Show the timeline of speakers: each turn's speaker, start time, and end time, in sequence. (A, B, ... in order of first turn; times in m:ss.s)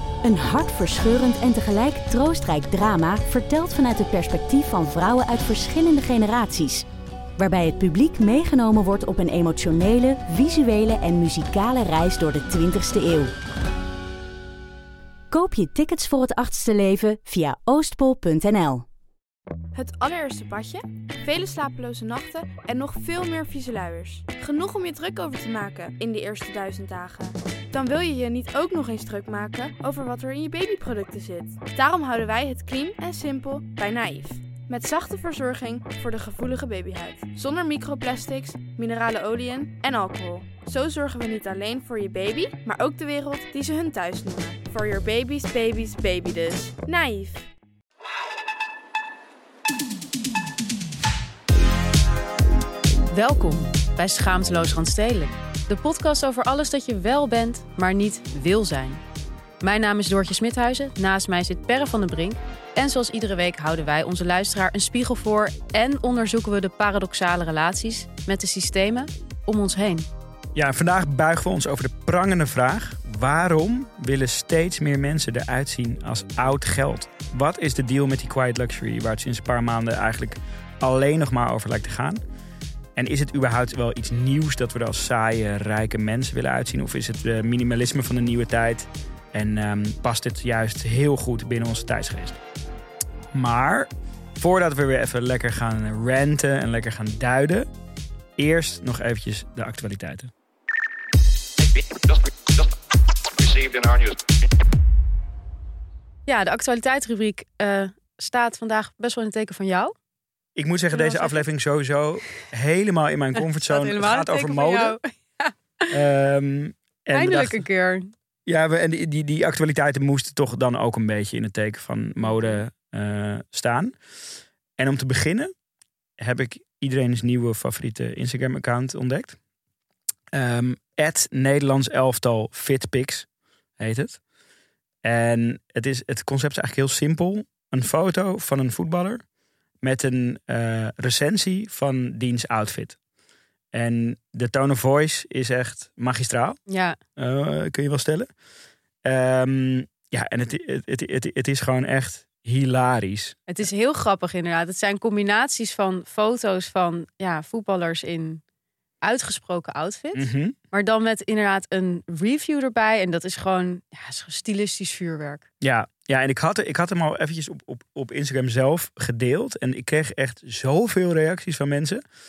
0:00.2-0:06.9 A
0:07.4-0:13.3 A
0:15.3-0:18.9 A
0:19.7-0:47.5 B
0:53.1-0:59.0 C
0:59.6-1:10.1 C
1:10.6-1:22.2 D
1:23.0-1:32.4 D
1:33.3-1:37.7 D
1:38.4-1:40.3 D
1:43.5-1:44.1 D
1:46.3-1:49.9 C
1:50.6-1:55.0 D
1:50.9-1:51.4 C
1:53.6-1:56.0 C
1:55.9-1:57.6 D
1:57.1-1:58.1 C
1:58.5-2:04.0 D
2:02.2-2:02.6 C
2:04.8-2:05.5 D
2:06.2-2:09.4 D
2:10.3-2:13.3 D
2:13.8-2:14.2 D
2:15.0-2:19.2 D
2:19.8-2:23.0 D
2:23.7-2:26.6 D
2:26.7-2:27.0 C
2:27.2-2:28.3 D
2:29.0-2:33.4 D
2:33.5-2:38.4 C
2:39.0-2:45.5 C
2:40.1-2:40.6 D
2:45.6-2:52.0 D